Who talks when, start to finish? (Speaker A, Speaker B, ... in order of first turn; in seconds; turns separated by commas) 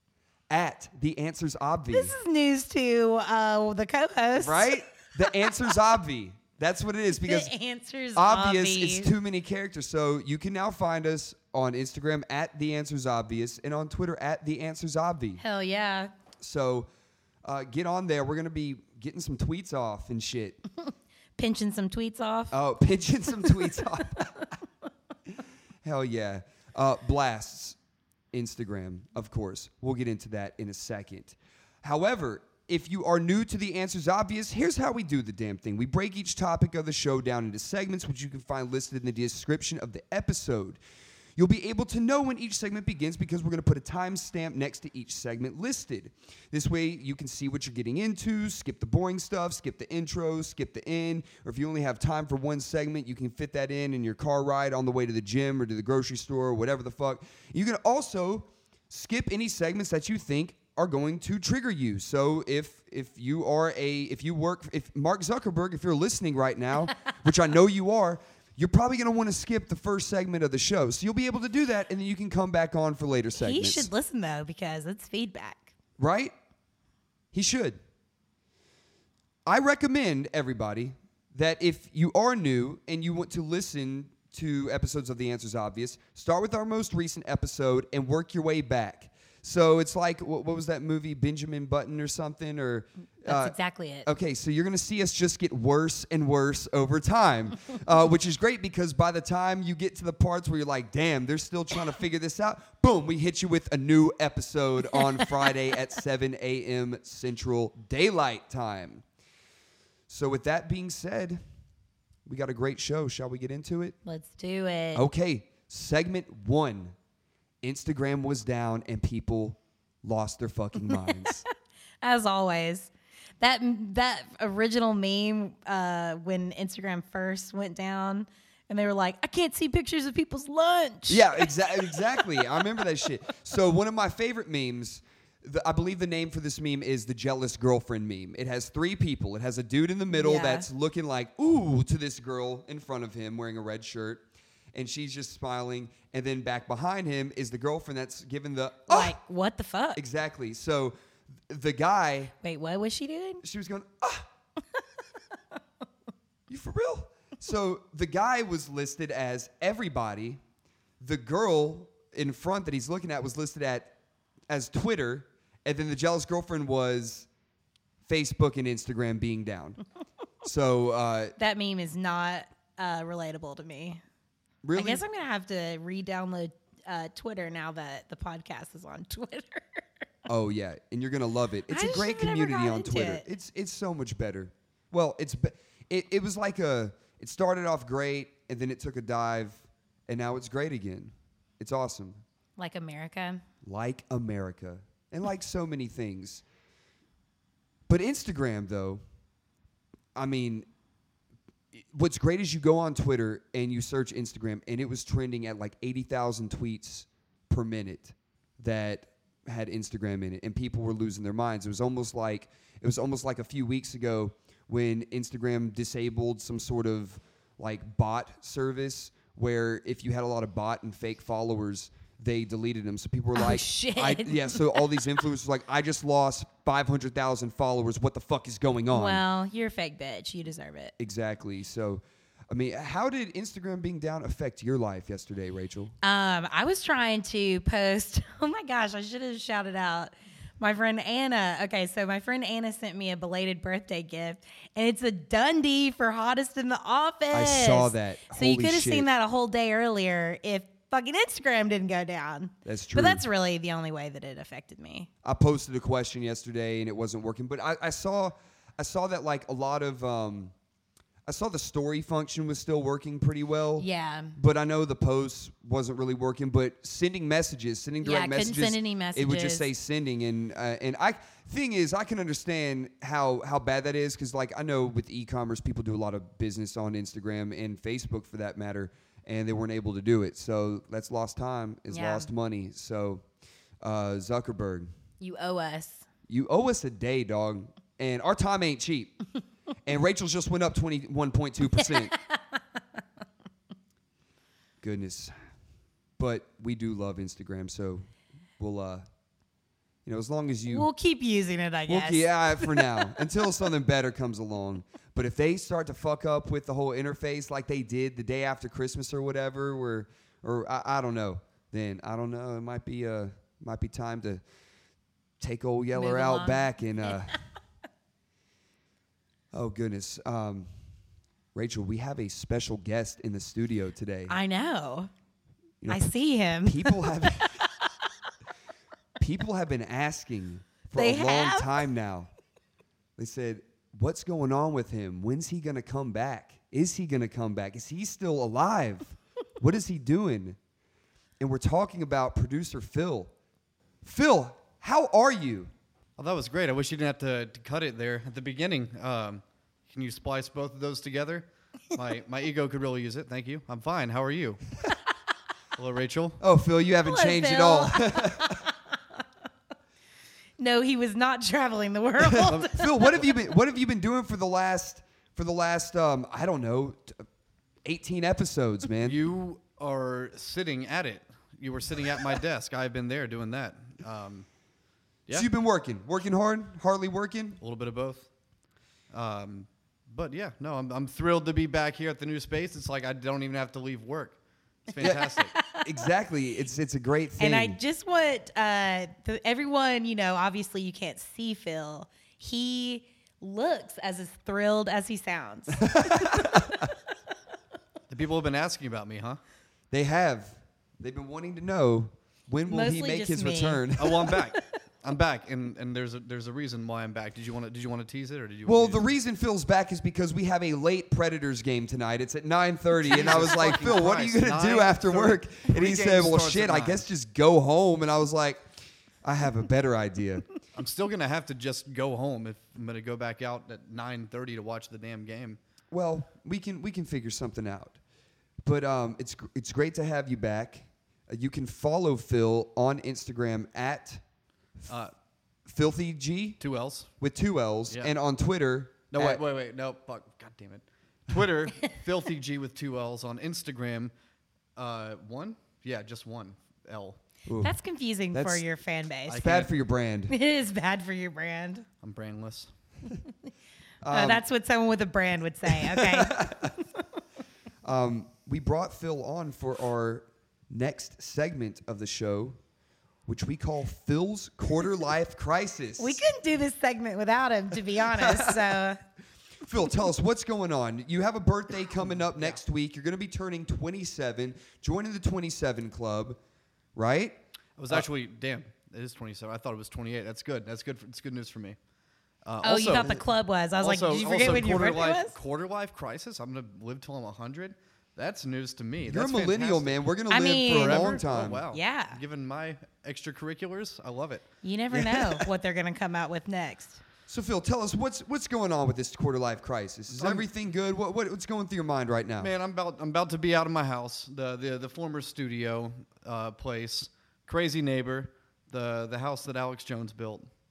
Speaker A: 0.5-2.2, Speaker B: 1.9-4.8, Speaker A: 4.4-7.5, Speaker B: 7.1-9.1, Speaker A: 8.2-15.4, Speaker B: 15.4-16.1, Speaker A: 16.4-16.9, Speaker A: 17.4-20.6, Speaker B: 21.4-22.6, Speaker A: 22.5-24.5, Speaker A: 25.8-27.8, Speaker A: 28.3-40.8, Speaker A: 41.4-73.9, Speaker B: 73.3-75.7, Speaker A: 76.0-76.3, Speaker A: 77.3-77.8, Speaker A: 79.5-109.0, Speaker B: 93.2-94.1, Speaker A: 110.1-111.4, Speaker A: 112.3-114.0, Speaker B: 114.0-115.0, Speaker A: 115.0-117.0, Speaker A: 117.6-121.4, Speaker B: 120.9-121.4, Speaker B: 122.0-132.4, Speaker A: 131.1-149.2, Speaker B: 140.1-140.7, Speaker B: 148.9-150.0, Speaker A: 149.9-150.9, Speaker A: 151.5-152.3, Speaker B: 152.4-153.4, Speaker A: 153.4-154.3, Speaker A: 156.5-160.4, Speaker A: 161.0-163.9, Speaker A: 164.5-167.3, Speaker A: 168.1-169.8, Speaker A: 170.4-171.3, Speaker B: 171.4-174.0, Speaker A: 174.6-175.0, Speaker B: 174.8-179.8, Speaker A: 180.3-192.2, Speaker B: 181.7-183.2, Speaker B: 192.6-193.4, Speaker A: 193.6-196.4, Speaker A: 197.9-199.0, Speaker A: 200.2-200.7, Speaker A: 201.7-229.2, Speaker B: 223.3-225.2, Speaker B: 228.9-230.9, Speaker A: 231.0-235.9, Speaker B: 236.0-255.1, Speaker A: 247.3-249.1, Speaker A: 252.7-253.2, Speaker A: 255.2-260.5, Speaker A: 261.3-283.2, Speaker B: 263.8-264.4, Speaker B: 268.0-269.7, Speaker B: 281.9-282.3, Speaker A: 283.8-284.9, Speaker B: 285.2-286.1, Speaker A: 286.3-289.2, Speaker A: 289.9-292.1, Speaker B: 291.8-292.4, Speaker A: 294.8-295.3, Speaker A: 296.2-298.1, Speaker A: 298.6-299.1, Speaker A: 300.1-300.9, Speaker B: 300.7-303.0, Speaker A: 301.9-314.4, Speaker A: 315.4-317.4, Speaker B: 315.9-317.4, Speaker A: 319.5-320.7, Speaker A: 321.6-324.4, Speaker B: 324.3-325.1, Speaker A: 325.8-326.1, Speaker B: 325.9-327.6, Speaker A: 326.6-327.6, Speaker A: 329.2-332.3, Speaker B: 330.9-331.7, Speaker A: 333.2-340.6, Speaker A: 341.4-343.3, Speaker A: 344.0-345.7, Speaker C: 346.2-354.6, Speaker C: 355.8-356.4, Speaker A: 356.4-358.6, Speaker B: 357.0-358.8, Speaker B: 360.6-362.9, Speaker A: 362.2-367.2, Speaker C: 362.5-363.2, Speaker A: 367.9-369.2, Speaker C: 369.0-374.5, Speaker A: 375.3-377.6, Speaker C: 377.6-378.3, Speaker C: 379.1-385.5, Speaker B: 385.0-385.9, Speaker A: 385.0-387.8, Speaker B: 387.4-396.7, Speaker A: 395.8-396.8, Speaker C: 398.1-399.4, Speaker A: 399.9-404.4, Speaker B: 402.7-404.4, Speaker C: 404.0-409.1, Speaker A: 408.7-418.7, Speaker C: 413.1-417.1, Speaker A: 419.2-420.4, Speaker C: 420.8-425.6, Speaker A: 425.9-428.0, Speaker A: 428.6-434.2, Speaker A: 435.7-436.6, Speaker C: 436.6-437.1, Speaker A: 437.2-439.4, Speaker C: 439.1-444.1, Speaker C: 444.8-447.2, Speaker A: 447.5-447.7, Speaker B: 447.6-449.4, Speaker A: 448.3-448.6, Speaker C: 449.3-449.7, Speaker A: 449.3-450.3, Speaker B: 450.3-451.9, Speaker C: 452.0-452.7, Speaker A: 454.0-454.4, Speaker B: 454.1-456.6, Speaker A: 455.7-456.7, Speaker A: 457.8-462.6, Speaker A: 463.3-466.2, Speaker B: 466.0-469.0, Speaker A: 468.1-468.7, Speaker A: 469.6-476.4, Speaker A: 476.9-477.4, Speaker C: 477.8-481.8, Speaker C: 482.4-483.2, Speaker B: 482.6-485.4, Speaker C: 483.8-490.0, Speaker A: 489.1-491.6, Speaker B: 490.3-492.2, Speaker C: 490.7-494.5, Speaker B: 494.6-497.0, Speaker A: 494.9-495.4, Speaker A: 497.3-502.5, Speaker C: 500.1-500.5, Speaker C: 502.4-510.5